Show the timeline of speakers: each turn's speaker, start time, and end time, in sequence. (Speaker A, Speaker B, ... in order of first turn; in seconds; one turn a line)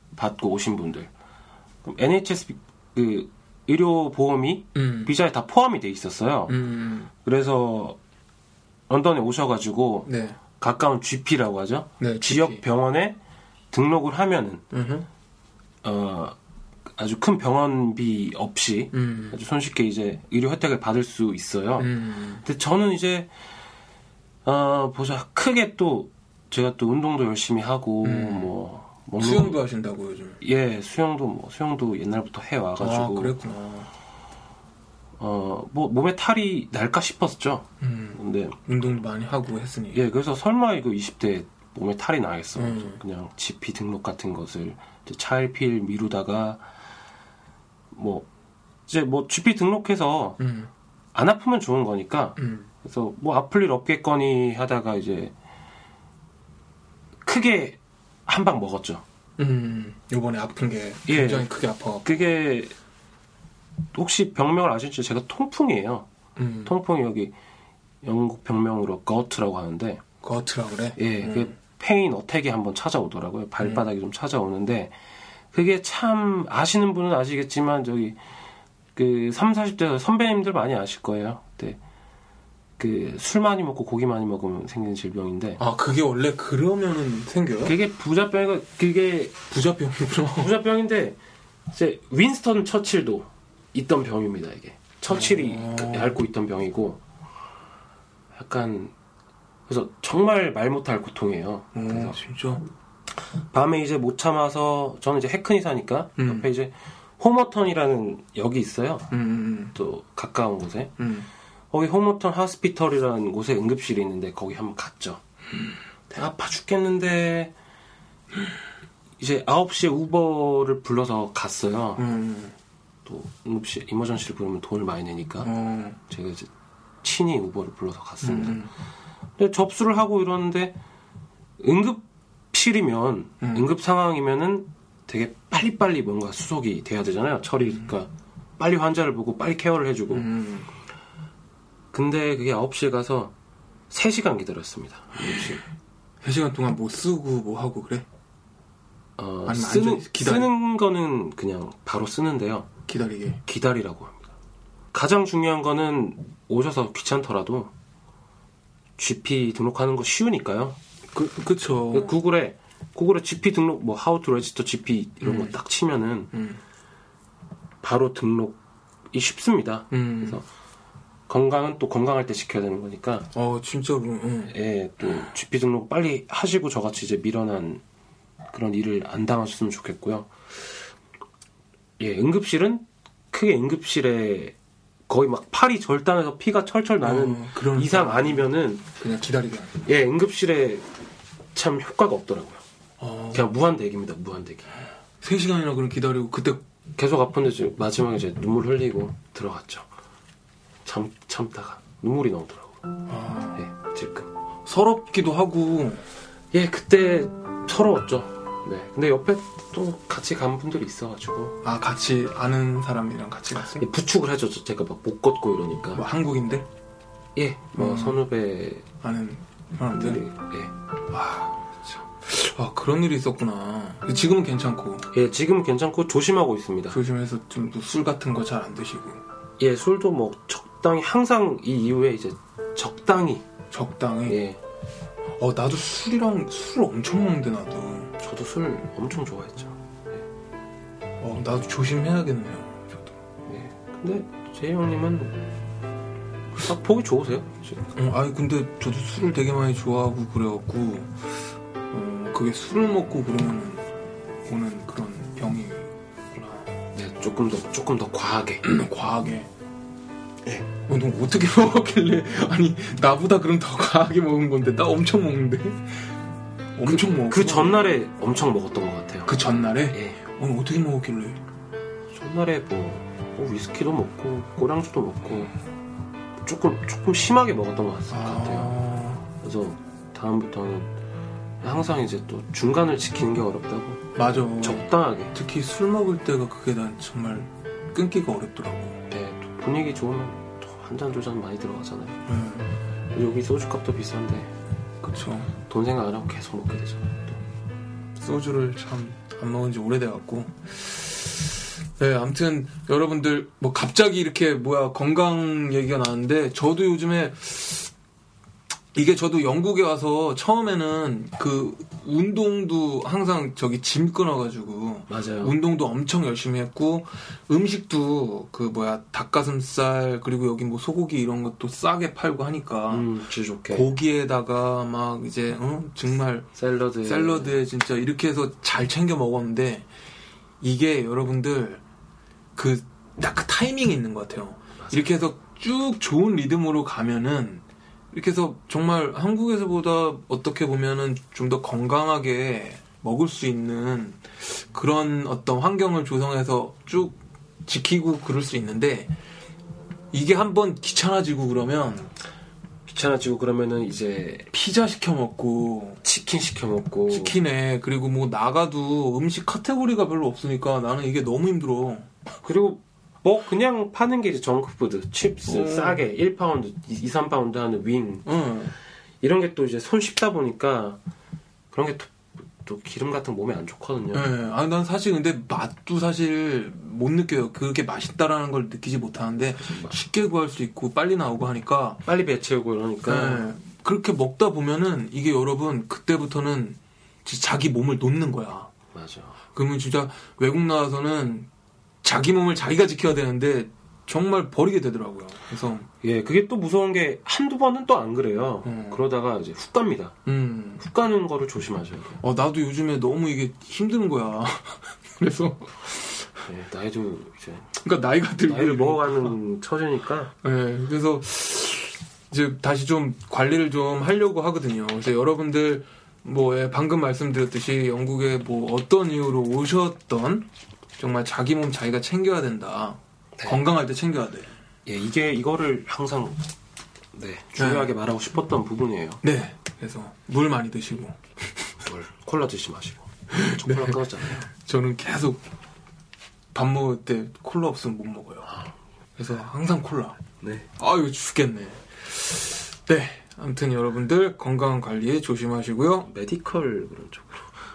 Speaker A: 0.1-1.1
Speaker A: 1.8-6.6
Speaker B: 4.8-5.1
Speaker B: 6.5-7.1
Speaker A: 7.2-8.0
Speaker A: 8.9-13.2
Speaker B: 10.1-10.4
Speaker B: 12.0-12.6
Speaker A: 13.7-14.6
Speaker B: 14.7-15.1
Speaker A: 15.8-16.4
Speaker A: 17.0-23.3
Speaker B: 18.9-19.4
Speaker B: 21.8-22.4
Speaker A: 24.4-29.6
Speaker B: 28.0-28.5
Speaker B: 29.2-30.4
Speaker A: 30.4-33.4
Speaker B: 32.8-33.9
Speaker A: 35.2-38.6
Speaker B: 37.8-40.0
Speaker A: 39.9-46.7
Speaker B: 42.6-43.0
Speaker A: 47.9-48.3
Speaker A: 48.9-50.4
Speaker B: 50.4-50.7
Speaker A: 51.1-55.3
Speaker B: 52.4-52.7
Speaker A: 57.2-59.0
Speaker B: 59.4-62.1
Speaker A: 61.1-61.5
Speaker A: 62.0-62.7
Speaker A: 63.9-66.1
Speaker B: 66.4-66.7
Speaker A: 66.7-67.3
Speaker A: 68.0-70.0
Speaker B: 70.2-71.5
Speaker A: 71.0-74.9
Speaker A: 75.5-78.2
Speaker A: 79.0-81.8
Speaker A: 82.8-85.6
Speaker B: 85.6-87.8
Speaker A: 87.6-89.4
Speaker B: 89.5-90.5
Speaker A: 90.4-91.2
Speaker A: 91.7-97.0
Speaker B: 95.1-96.2
Speaker A: 98.3-98.9
Speaker A: 99.7-102.2
Speaker B: 101.7-102.7
Speaker A: 103.4-109.1
Speaker B: 106.2-106.5
Speaker B: 109.1-109.8
Speaker A: 109.8-111.0
Speaker B: 111.0-111.3
Speaker A: 111.7-115.2
Speaker A: 116.1-117.5
Speaker A: 119.2-122.0
Speaker B: 122.0-122.5
Speaker A: 123.0-125.5
Speaker B: 125.4-126.0
Speaker A: 126.1-126.5
Speaker A: 127.0-128.7
Speaker B: 128.2-128.7
Speaker A: 129.4-130.8
Speaker A: 131.6-140.3
Speaker B: 133.4-133.7
Speaker B: 140.1-140.7
Speaker A: 141.9-143.3
Speaker A: 143.9-145.6
Speaker B: 146.2-148.1
Speaker A: 149.2-152.7
Speaker B: 149.5-150.5
Speaker B: 152.9-153.4
Speaker A: 153.5-154.3
Speaker A: 154.9-157.7
Speaker A: 159.0-160.8
Speaker B: 161.1-162.2
Speaker A: 161.9-166.3
Speaker B: 165.2-165.6
Speaker B: 166.3-166.6
Speaker A: 167.8-168.6
Speaker A: 169.1-170.4
Speaker B: 169.9-170.4
Speaker A: 171.3-173.3
Speaker B: 173.3-174.5
Speaker A: 174.5-177.8
Speaker A: 178.5-180.3
Speaker A: 182.0-184.6
Speaker A: 185.1-188.9
Speaker B: 187.0-189.8
Speaker A: 189.9-190.9
Speaker A: 191.5-192.6
Speaker B: 193.0-193.4
Speaker A: 193.3-194.8
Speaker B: 195.2-196.6
Speaker A: 197.0-199.9
Speaker A: 200.8-202.8
Speaker B: 203.1-203.6
Speaker A: 203.6-204.3
Speaker B: 204.7-206.0
Speaker A: 206.5-211.6
Speaker B: 211.6-213.9
Speaker A: 213.8-216.0
Speaker B: 215.9-216.7
Speaker A: 217.3-218.9
Speaker B: 217.8-218.2
Speaker B: 219.0-220.2
Speaker A: 219.9-220.7
Speaker B: 221.1-225.1
Speaker A: 225.1-227.0
Speaker B: 226.9-229.2
Speaker A: 229.6-233.5
Speaker B: 233.7-234.4
Speaker A: 234.3-234.6
Speaker B: 235.4-238.1
Speaker A: 238.2-240.2
Speaker B: 241.2-243.1
Speaker A: 243.5-245.5
Speaker A: 246.6-247.9
Speaker B: 247.9-251.1
Speaker B: 251.9-253.9
Speaker B: 254.5-256.7
Speaker A: 256.9-258.6
Speaker B: 258.6-259.5
Speaker B: 260.9-265.9
Speaker B: 266.8-267.9
Speaker A: 266.9-270.2
Speaker B: 269.3-271.4
Speaker A: 272.1-275.5
Speaker A: 276.4-280.9
Speaker B: 278.1-279.2
Speaker A: 281.6-285.3
Speaker B: 284.1-289.1
Speaker A: 289.1-292.2
Speaker B: 292.3-292.7
Speaker A: 293.1-294.5
Speaker B: 295.0-295.5
Speaker A: 295.6-297.4
Speaker B: 298.2-307.9
Speaker B: 308.9-323.1
Speaker A: 315.1-315.6
Speaker A: 322.9-323.9
Speaker B: 323.7-326.5
Speaker A: 326.6-327.6
Speaker B: 327.0-329.9
Speaker B: 330.6-331.8
Speaker B: 332.6-349.1
Speaker A: 334.8-335.2
Speaker B: 350.1-352.1
Speaker A: 352.9-354.5
Speaker B: 354.5-356.0
Speaker A: 356.0-357.4
Speaker B: 357.1-362.1
Speaker A: 362.4-368.3
Speaker B: 365.5-366.0
Speaker B: 368.3-368.7
Speaker A: 369.2-371.0
Speaker A: 371.7-374.3
Speaker B: 374.1-382.0
Speaker A: 379.6-380.0
Speaker A: 382.1-383.5
Speaker B: 383.1-388.7
Speaker A: 388.9-389.4
Speaker B: 389.6-391.5
Speaker B: 392.0-395.9
Speaker A: 396.0-400.2
Speaker B: 398.6-399.0
Speaker B: 400.3-400.9
Speaker A: 400.8-402.2
Speaker B: 402.2-406.4
Speaker A: 406.5-407.7
Speaker B: 407.8-409.4
Speaker A: 408.4-410.3
Speaker B: 410.4-420.5
Speaker B: 421.0-424.5
Speaker A: 424.9-426.4
Speaker A: 427.1-429.2
Speaker B: 427.6-427.9
Speaker B: 429.2-431.2
Speaker A: 431.8-434.4
Speaker B: 433.3-435.4
Speaker B: 436.5-438.6
Speaker B: 439.2-440.2
Speaker A: 440.4-440.7
Speaker B: 440.8-446.1
Speaker A: 446.1-447.5